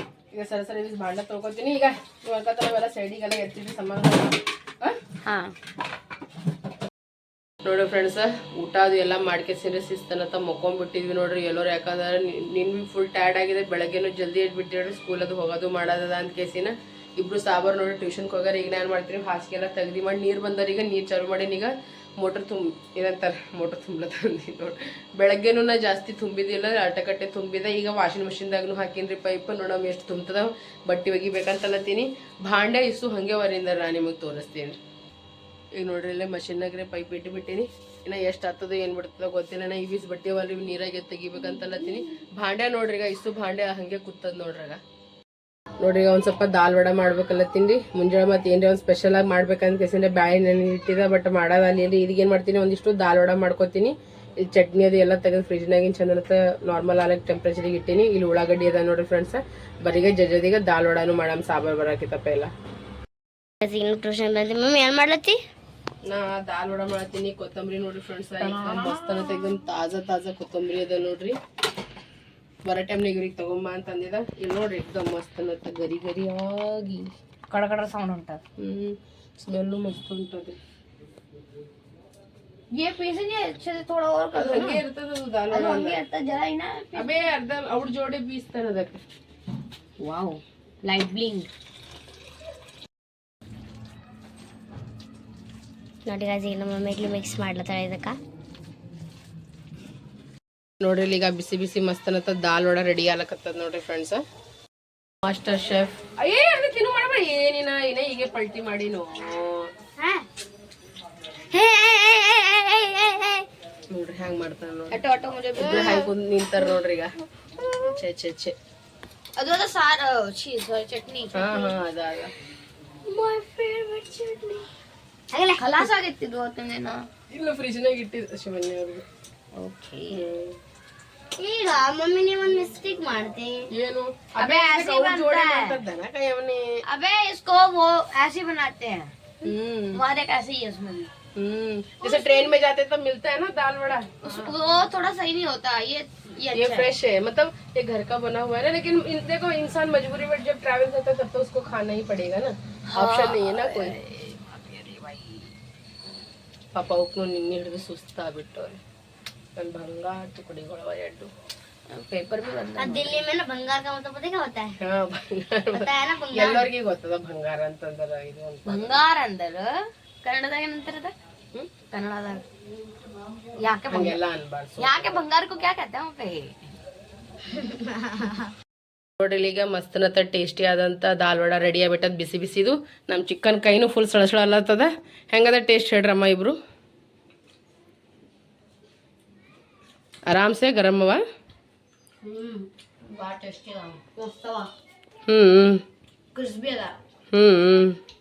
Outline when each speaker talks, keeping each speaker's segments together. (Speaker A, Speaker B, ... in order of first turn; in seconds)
Speaker A: 0.3-5.0, 7.6-34.8, 35.7-44.8, 45.8-62.5, 66.0-71.4, 72.7-77.1, 78.6-80.6, 84.3-86.0, 86.9-89.0, 100.8-104.2, 105.2-109.7, 113.9-115.0, 115.6-117.1, 117.8-118.5, 121.3-122.3, 127.3-129.1, 130.1-130.6, 133.7-136.8, 139.4-140.0, 141.3-144.5, 146.5-153.9, 156.7-158.8, 159.6-161.3, 164.8-169.0, 173.9-175.2, 179.2-186.6, 190.3-191.2, 195.3-195.8, 197.3-198.0
Speaker B: 5.3-5.5, 68.4-69.3, 77.5-78.4, 82.7-84.8, 85.5-87.1, 90.0-91.5, 114.9-116.1, 119.4-121.7, 123.1-124.6, 125.6-127.1, 129.5-130.2, 134.4-135.8, 136.9-139.1, 139.9-141.1, 142.0-142.5, 144.2-146.9, 152.9-155.5, 161.9-163.3, 168.7-171.1, 171.9-172.4, 173.6-174.2, 174.8-176.6, 192.2-194.7, 196.3-197.0
Speaker C: 63.6-65.4, 96.1-98.2, 110.0-110.3, 111.5-113.5, 125.3-125.9, 131.4-133.7, 162.8-164.8, 165.7-166.7, 177.6-178.5